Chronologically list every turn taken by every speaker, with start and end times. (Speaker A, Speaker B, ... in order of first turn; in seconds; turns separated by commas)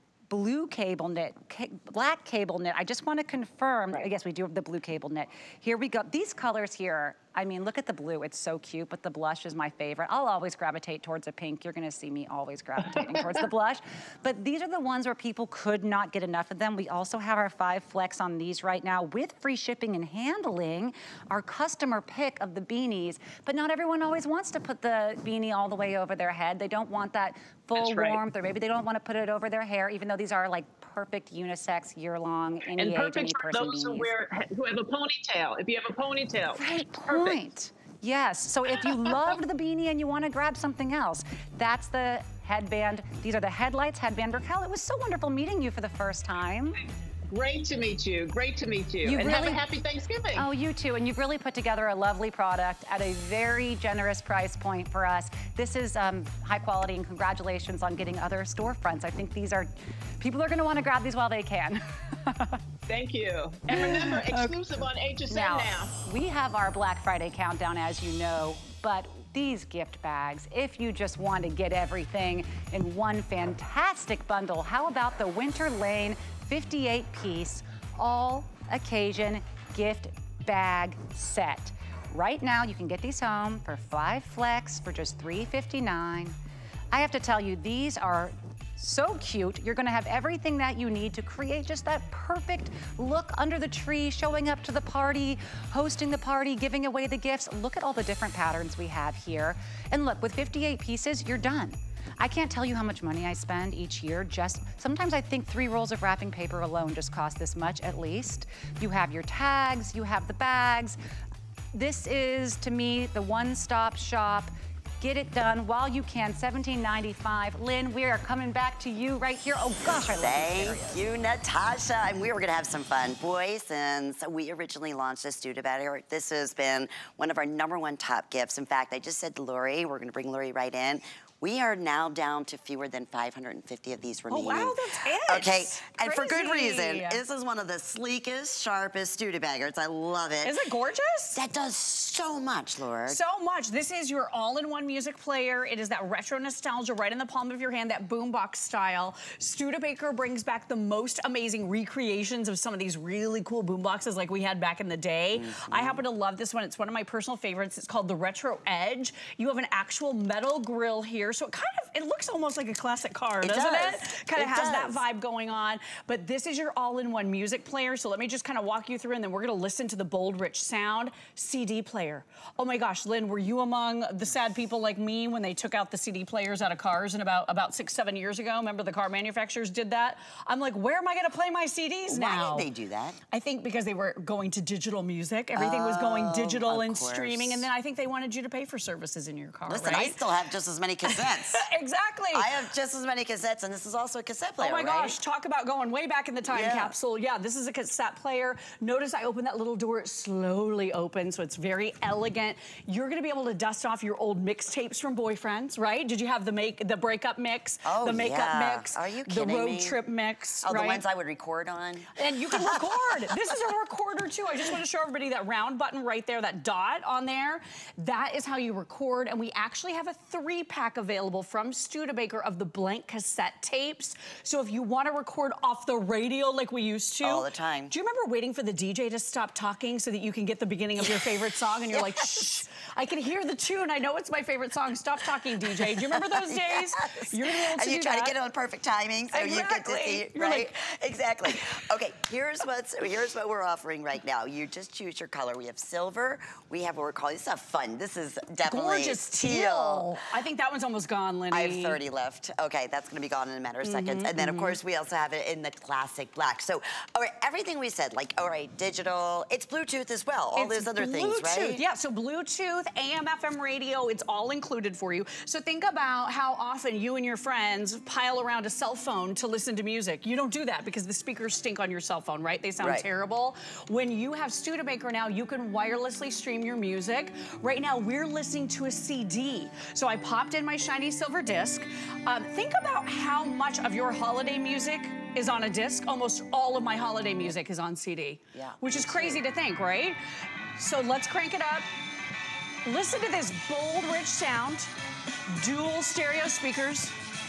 Speaker A: 0.3-34.1, Speaker B: 27.8-28.2, Speaker B: 32.8-37.4, Speaker A: 36.5-46.8, Speaker B: 47.3-50.5, Speaker A: 49.0-49.6, Speaker A: 50.4-62.6, Speaker B: 62.9-66.0, Speaker A: 63.7-64.6, Speaker A: 65.3-86.3, Speaker A: 86.9-111.0, Speaker A: 111.7-121.0, Speaker C: 120.2-140.5, Speaker D: 134.3-137.2, Speaker D: 140.4-141.4, Speaker C: 141.3-143.2, Speaker D: 143.1-182.7, Speaker C: 155.3-156.0, Speaker C: 163.4-165.0, Speaker C: 182.1-183.2, Speaker D: 183.3-190.2, Speaker C: 185.6-187.6, Speaker C: 189.7-191.6, Speaker D: 191.1-192.5, Speaker C: 192.3-195.2, Speaker D: 194.6-211.0, Speaker C: 196.5-196.9, Speaker C: 207.8-210.0, Speaker C: 210.6-213.5, Speaker D: 212.1-238.3, Speaker C: 227.2-227.9, Speaker C: 231.0-232.6, Speaker C: 235.6-250.1, Speaker D: 239.3-240.7, Speaker D: 248.7-252.0, Speaker C: 251.5-261.8, Speaker D: 253.8-254.8, Speaker D: 260.5-290.2, Speaker C: 288.5-289.4, Speaker D: 290.8-291.9, Speaker D: 292.9-294.9, Speaker D: 295.5-297.1